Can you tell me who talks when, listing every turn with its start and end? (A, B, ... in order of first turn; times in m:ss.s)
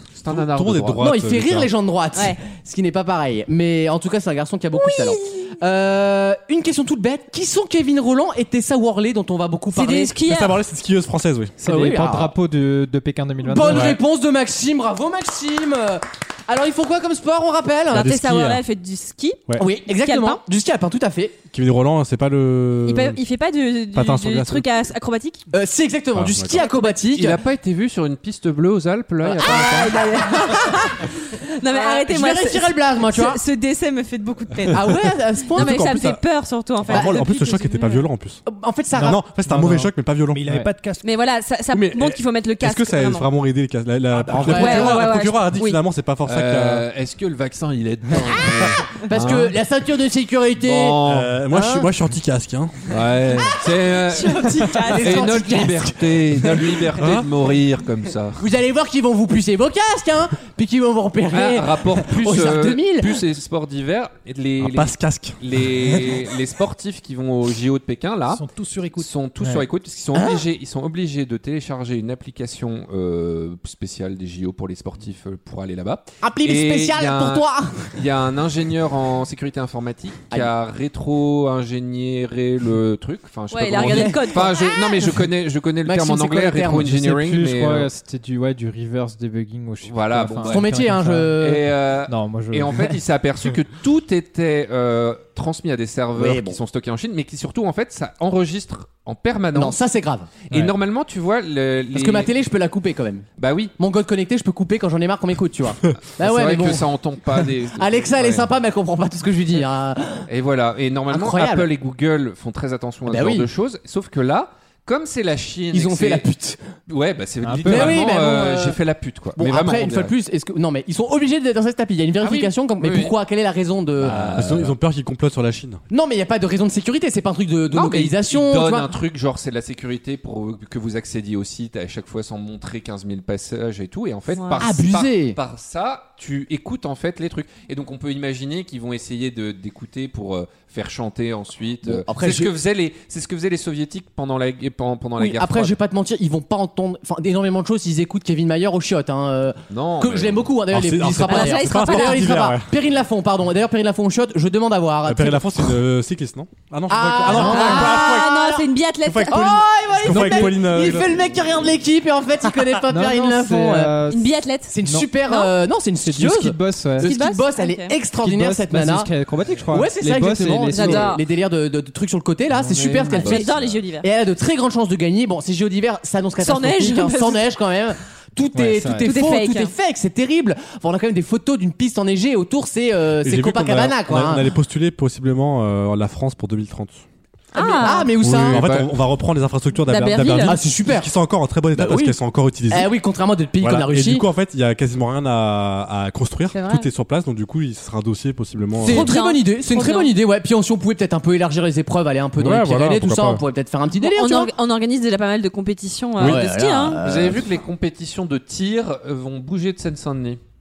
0:00.2-0:01.1 A
0:00.3-0:01.7 B
0:01.0-0:10.2 C
0:02.1-0:02.4 D
0:04.7-0:05.5 D
0:09.7-0:10.6 D
0:10.2-0:11.6 B
0:11.6-0:13.9 E
0:11.6-0:12.3 C
0:13.4-0:18.1 C
0:13.6-0:14.0 B
0:17.9-0:19.4 D
0:17.9-0:18.6 B
0:19.6-0:21.4 C
0:20.0-0:20.4 D
0:21.5-0:23.2 B
0:22.8-0:25.4 D
0:23.9-0:24.6 B
0:25.5-0:27.4 C
0:26.1-0:26.6 B
0:26.4-0:27.0 D
0:27.1-0:30.0 A
0:29.2-0:30.7 C
0:29.4-0:35.0 D
0:31.6-0:33.4 C
0:34.7-0:36.2 C
0:35.5-0:38.0 D
0:35.6-0:36.1 B
0:36.8-0:38.4 B
0:36.9-0:37.2 C
0:38.4-0:39.2 C
0:39.0-0:40.4 B
0:39.5-0:39.7 E
0:39.6-0:41.0 F
0:41.0-0:43.3 D
0:41.7-0:46.9 B
0:44.1-0:44.6 F
0:44.4-0:45.8 D
0:44.4-0:45.0 C
0:46.2-0:49.6 A
0:49.0-0:51.9 C
0:50.6-0:51.4 A
0:51.0-0:52.9 B
0:52.9-0:58.4 A
0:54.1-0:55.4 D
0:54.4-0:56.9 C
0:56.9-0:57.3 B
0:58.4-1:03.2 C
1:01.3-1:08.4 A
1:04.6-1:06.1 B
1:08.3-1:09.1 F
1:09.0-1:27.9 A
1:10.1-1:10.4 C
1:16.2-1:17.9 C
1:23.5-1:25.1 D
1:23.8-1:24.4 C
1:25.8-1:26.9 C
1:26.9-1:31.3 E
1:29.8-1:30.7 A
1:30.4-1:31.7 C
1:31.4-1:39.8 A
1:32.1-1:32.8 E
1:36.2-1:36.6 C
1:39.5-1:40.3 C
1:40.5-1:42.3 A
1:41.9-1:43.2 C
1:43.4-1:43.7 A
1:43.8-1:46.9 C
1:46.2-1:48.5 A
1:47.8-1:50.2 C
1:50.3-1:56.2 A
1:51.1-1:51.7 C
1:53.1-1:53.5 C
1:55.7-1:56.6 C
1:56.9-2:00.1 A
1:57.4-1:58.0 E
1:57.7-1:58.8 C
1:59.4-2:04.6 C
2:02.2-2:03.1 A
2:04.0-2:04.7 A
2:04.3-2:05.8 B
2:05.9-2:08.9 C
2:07.7-2:25.8 A
2:14.3-2:14.6 D
2:14.6-2:15.4 C
2:21.8-2:22.5 C
2:25.2-2:35.7 C
2:29.7-2:30.5 A
2:30.7-2:32.7 B
2:31.1-2:32.4 D
2:35.0-2:38.3 B
2:36.9-2:38.7 C
2:37.3-2:39.6 D
2:37.3-2:37.9 E
2:39.0-2:41.2 B
2:39.3-2:44.0 C
2:40.1-2:40.5 D
2:42.9-2:44.3 E
2:44.1-2:45.5 D
2:44.7-2:49.1 C
2:46.0-2:47.1 E
2:47.0-2:47.9 D
2:48.2-2:51.2 E
2:49.7-3:04.5 C
2:50.7-2:51.2 D
2:52.5-2:53.8 A
2:53.1-2:54.0 D
2:56.4-2:57.4 D
2:58.5-2:59.1 E
2:59.0-2:59.7 D
3:03.2-3:07.0 B
3:07.5-3:08.1 D
3:07.5-3:08.7 C
3:08.2-3:12.9 B
3:08.4-3:08.9 A
3:09.8-3:10.6 D
3:10.4-3:11.1 C
3:11.7-3:12.1 C
3:12.7-3:14.2 C
3:13.6-3:19.1 B
3:16.5-3:16.9 D
3:18.8-3:20.1 D
3:18.8-3:24.5 C
3:22.4-3:23.4 B
3:24.0-3:27.0 D
3:26.2-3:26.4 B
3:26.2-3:27.4 C
3:27.0-3:30.4 A